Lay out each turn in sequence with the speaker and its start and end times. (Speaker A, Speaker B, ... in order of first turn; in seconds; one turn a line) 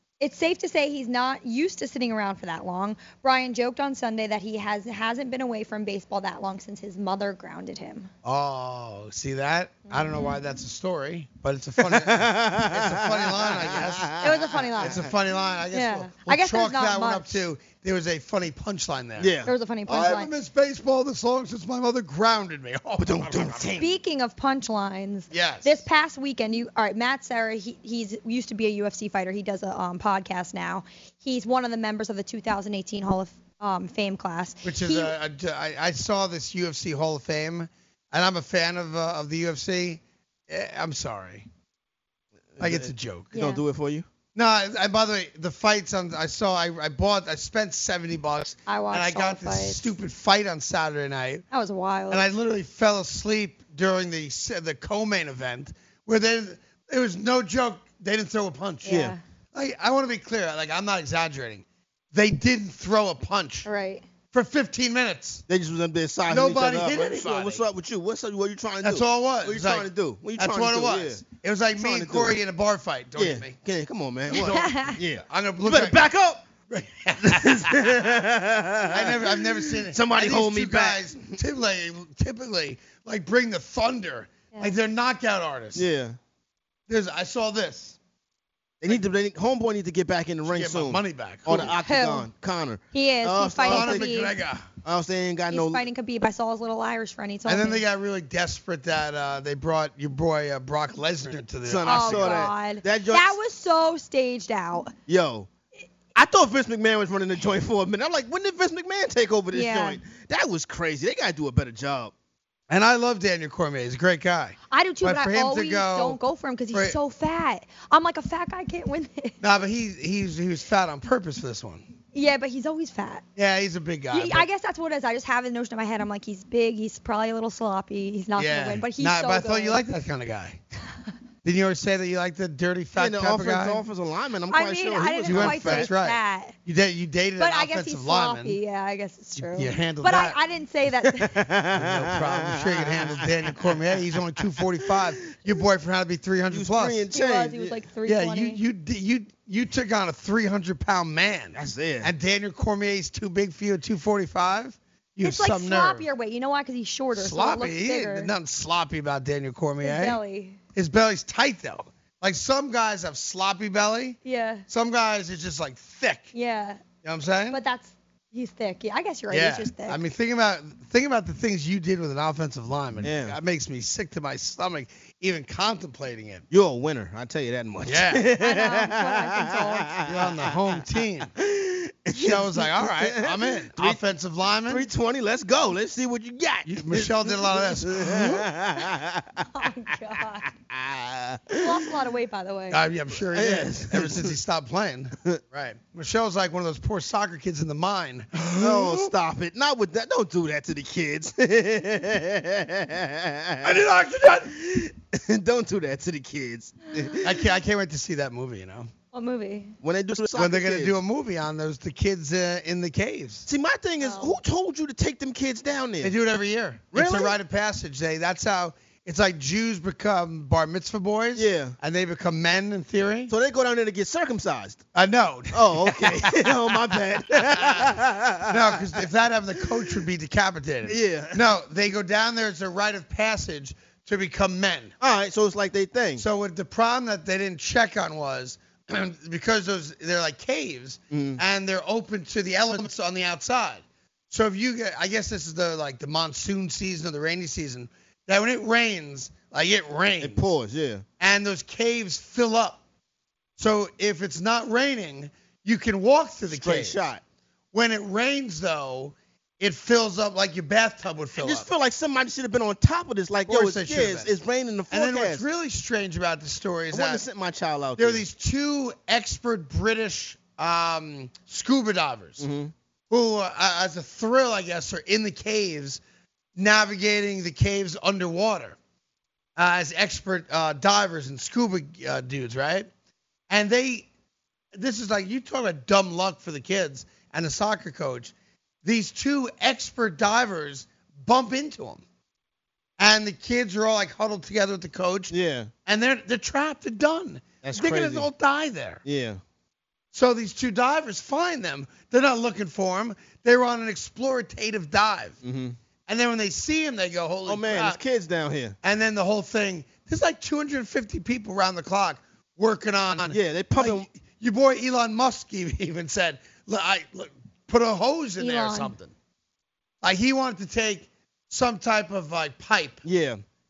Speaker A: 0.2-8.1
Speaker B: 8.2-23.8
Speaker A: 9.9-10.3
Speaker C: 11.8-15.0
Speaker A: 14.2-15.0
Speaker A: 15.7-17.4
Speaker C: 19.2-19.5
Speaker A: 19.4-20.3
Speaker C: 23.0-23.9
Speaker A: 23.8-35.1
Speaker B: 25.3-25.9
Speaker B: 34.6-41.5
Speaker C: 42.5-44.0
Speaker B: 42.6-43.3
Speaker A: 43.3-43.6
Speaker B: 44.3-51.5
Speaker A: 48.6-49.9
Speaker A: 51.5-52.3
Speaker B: 52.1-63.7
Speaker A: 58.8-59.2
Speaker C: 58.9-59.1
Speaker A: 63.6-64.0
Speaker B: 64.3-65.4
Speaker C: 65.5-71.2
Speaker B: 66.3-67.7
Speaker B: 68.8-73.5
Speaker C: 71.7-72.4
Speaker C: 73.2-76.4
Speaker B: 74.3-74.6
Speaker A: 74.3-75.0
Speaker B: 75.3-76.0
Speaker B: 76.7-78.2
Speaker C: 77.2-81.4
Speaker B: 78.9-85.8
Speaker C: 85.7-86.2
Speaker B: 86.9-88.0
Speaker C: 88.8-94.2
Speaker B: 90.5-91.7
Speaker A: 91.6-92.3
Speaker A: 92.9-94.3
Speaker B: 93.6-94.7
Speaker C: 94.8-95.8
Speaker A: 95.5-97.8
Speaker B: 97.5-102.5
Speaker C: 101.7-103.4
Speaker A: 101.8-104.9
Speaker C: 105.1-105.5
Speaker C: 106.1-112.1
Speaker A: 109.5-110.0
Speaker B: 112.7-116.2
Speaker A: 114.7-119.4
Speaker B: 119.4-121.8
Speaker A: 122.1-123.2
Speaker B: 123.3-124.5
Speaker A: 124.1-129.8
Speaker B: 128.3-130.6
Speaker B: 131.4-133.8
Speaker C: 132.9-135.9
Speaker A: 134.5-136.6
Speaker B: 135.2-138.6
Speaker A: 137.4-141.5
Speaker B: 139.4-140.4
Speaker C: 141.1-143.9
Speaker B: 141.7-147.1
Speaker C: 146.5-147.8
Speaker A: 147.1-148.6
Speaker B: 148.0-156.1
Speaker C: 151.5-152.1
Speaker A: 155.2-158.3
Speaker B: 157.1-160.2
Speaker A: 159.8-160.6
Speaker B: 160.7-166.3
Speaker A: 164.2-164.7
Speaker A: 166.3-166.8
Speaker B: 167.0-167.6
Speaker A: 167.5-170.0
Speaker B: 169.3-176.4
Speaker C: 173.0-173.4
Speaker C: 176.5-180.8
Speaker B: 177.8-178.3
Speaker A: 178.3-179.9
Speaker B: 180.1-181.3
Speaker C: 181.3-184.0
Speaker B: 182.1-184.9
Speaker C: 184.7-189.4
Speaker B: 186.7-188.5
Speaker A: 189.5-190.5
Speaker C: 190.7-191.9
Speaker A: 191.5-192.8
Speaker B: 192.7-199.1
Speaker C: 193.3-194.3
Speaker C: 198.4-203.9
Speaker B: 203.6-204.5
Speaker C: 204.4-207.4
Speaker B: 207.2-208.9
Speaker A: 209.1-209.7
Speaker C: 209.8-211.0
Speaker B: 210.3-213.4
Speaker C: 213.5-216.2
Speaker A: 214.0-214.4
Speaker B: 216.0-223.3
Speaker C: 216.9-217.4
Speaker C: 221.3-221.8
Speaker C: 223.3-224.8
Speaker B: 224.9-227.9
Speaker C: 225.5-229.0
Speaker B: 228.5-234.9
Speaker C: 230.8-231.4
Speaker C: 235.0-236.2
Speaker B: 236.2-250.5
Speaker C: 241.1-241.4
Speaker C: 250.2-251.0
Speaker B: 251.2-252.8
Speaker B: 253.6-257.0
Speaker C: 256.5-257.2
Speaker B: 257.7-261.7
Speaker C: 261.4-265.4
Speaker B: 263.5-264.3
Speaker B: 264.9-267.2
Speaker C: 266.9-268.2
Speaker B: 268.0-272.5
Speaker C: 272.4-272.7
Speaker B: 273.1-276.0
Speaker B: 276.6-278.8
Speaker B: 279.6-282.9
Speaker B: 283.5-284.1
Speaker B: 284.7-288.3
Speaker B: 288.8-292.0
Speaker B: 293.0-295.3
Speaker C: 295.3-295.7
Speaker B: 295.9-299.0
Speaker C: 297.6-298.3
Speaker C: 299.0-299.4
Speaker B: 300.1-305.4
Speaker C: 305.4-305.8
Speaker B: 306.1-308.0
Speaker C: 307.4-308.8
Speaker B: 308.8-319.1
Speaker C: 313.3-314.1
Speaker A: 318.4-318.9
Speaker B: 320.0-323.0
Speaker C: 323.0-323.4